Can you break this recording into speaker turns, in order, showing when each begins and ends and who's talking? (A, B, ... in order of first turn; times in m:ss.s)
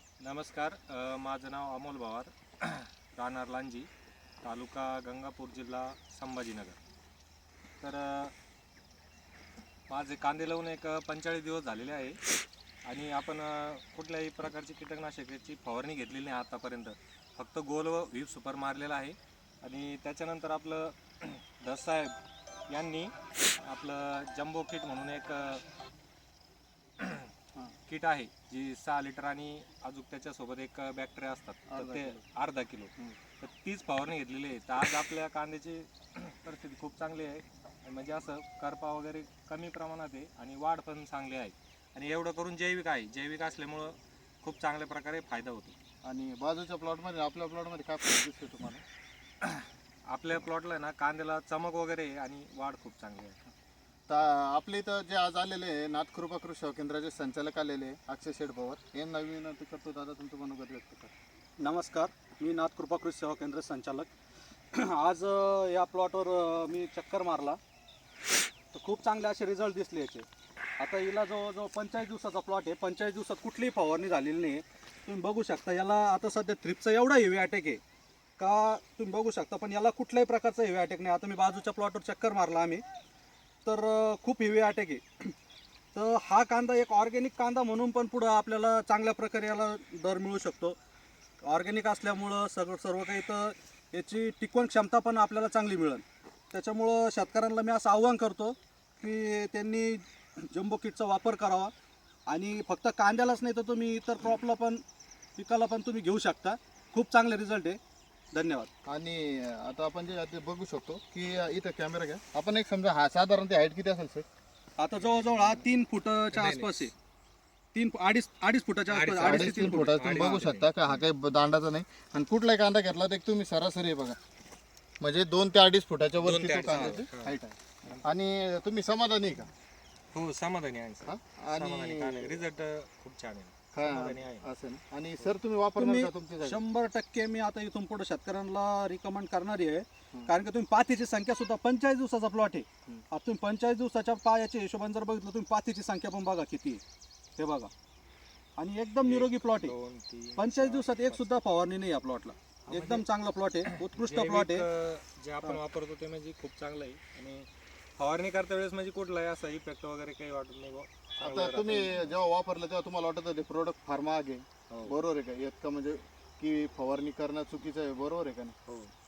0:00.2-0:03.9 A
0:04.4-0:06.8 A
0:07.8-0:08.3 A
0:09.9-0:12.2 A
0:12.8-0:22.1 A
0:22.7-0:25.6 A
0:27.0-0:27.3 A
0:27.9-0:45.8 A
0:31.7-0:32.2 B
0:46.0-0:48.8 B
0:49.4-0:53.4 A
0:54.1-1:01.1 B
1:01.6-1:04.1 C
1:04.7-1:07.6 C
1:08.7-1:10.2 C
1:10.8-1:17.8 C
1:18.4-1:22.8 C
1:23.6-1:25.3 C
1:25.9-1:30.8 C
1:31.4-1:41.7 C
1:42.3-1:44.8 C
1:45.4-1:47.8 C
1:48.3-1:48.7 C
1:48.8-1:54.2 B
1:54.8-1:56.9 C
1:55.0-1:55.6 A
1:56.3-1:56.7 A
1:57.7-2:00.5 C
1:58.9-2:01.0 A
1:59.2-2:04.2 B
2:05.0-2:09.5 B
2:06.2-2:08.0 A
2:10.1-2:14.4 A
2:11.0-2:12.4 B
2:13.7-2:16.6 B
2:15.8-2:26.8 C
2:27.4-2:27.7 C
2:28.6-2:29.7 C
2:29.0-2:31.3 A
2:30.4-2:34.6 C
2:32.7-2:33.0 A
2:33.6-2:42.2 A
2:41.2-2:48.6 B
2:44.7-2:45.0 A
2:48.7-2:48.9 A